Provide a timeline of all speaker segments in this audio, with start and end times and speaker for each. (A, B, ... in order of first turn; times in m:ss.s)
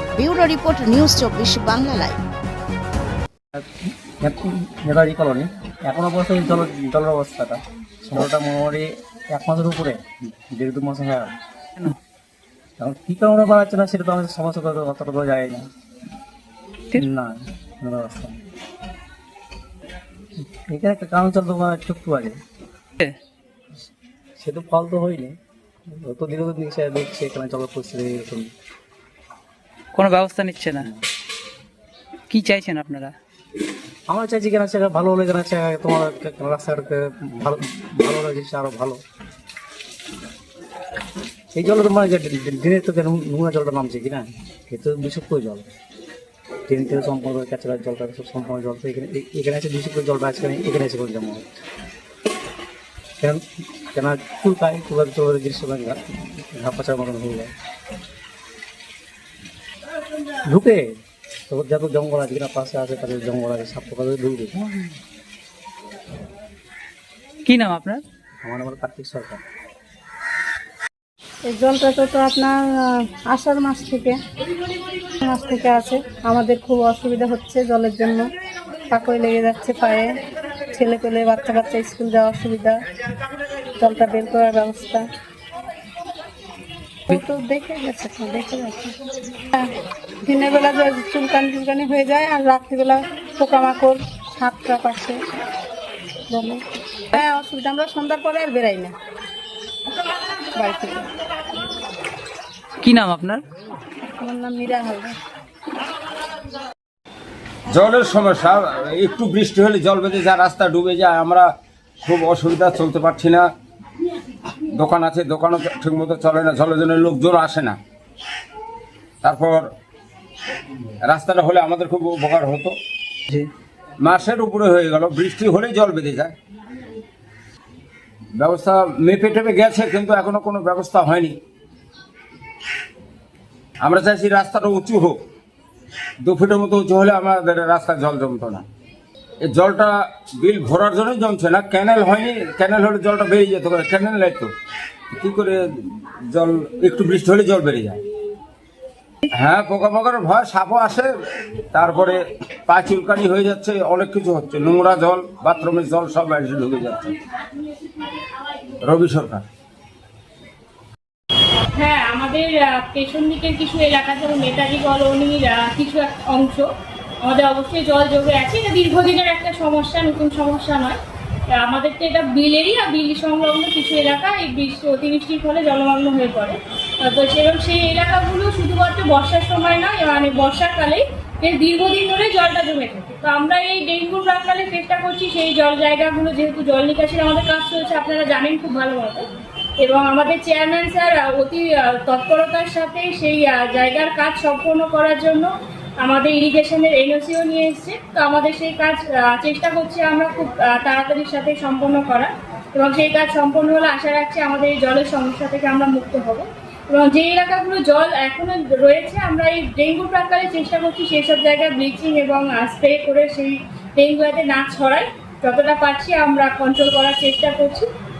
0:00.2-0:02.2 A
0:03.5-0:11.4 B
0:12.8-0:15.7 B
0:16.9-0:18.4 B
0:20.4-0:22.4 B
0:24.4-0:25.4 B
0:26.0-0:28.5 B
0:29.9-0:30.9 C
0:32.3-0:33.2 C
0:34.1-0:39.0 B
0:41.5-0:45.7 B
0:46.7-0:51.5 B
0:53.2-0:57.5 B
1:00.4-1:01.0 B
1:01.5-1:04.9 B
1:07.4-1:08.0 C
1:08.4-1:09.4 B
1:11.5-1:12.5 D
1:13.1-1:14.2 D
1:15.2-1:18.2 D
1:18.9-1:20.1 D
1:20.7-1:22.8 D
1:23.8-1:25.0 D
1:27.1-1:28.9 D
1:30.2-1:35.2 D
1:36.3-1:36.6 D
1:37.1-1:38.9 D
1:40.5-1:41.0 D
1:42.8-1:43.4 C
1:44.2-1:45.2 D
1:47.7-1:51.5 E
1:52.0-1:53.5 E
1:54.7-1:57.8 E
1:59.2-1:59.7 E
2:01.0-2:02.8 E
2:04.0-2:06.3 E
2:08.4-2:11.4 E
2:13.8-2:15.2 E
2:16.2-2:18.6 E
2:19.5-2:24.5 E
2:25.1-2:28.0 E
2:29.4-2:31.1 E
2:31.7-2:37.2 E
2:38.8-2:39.4 E
2:41.7-2:46.7 F
2:47.2-3:09.3 F
3:09.8-3:37.9 F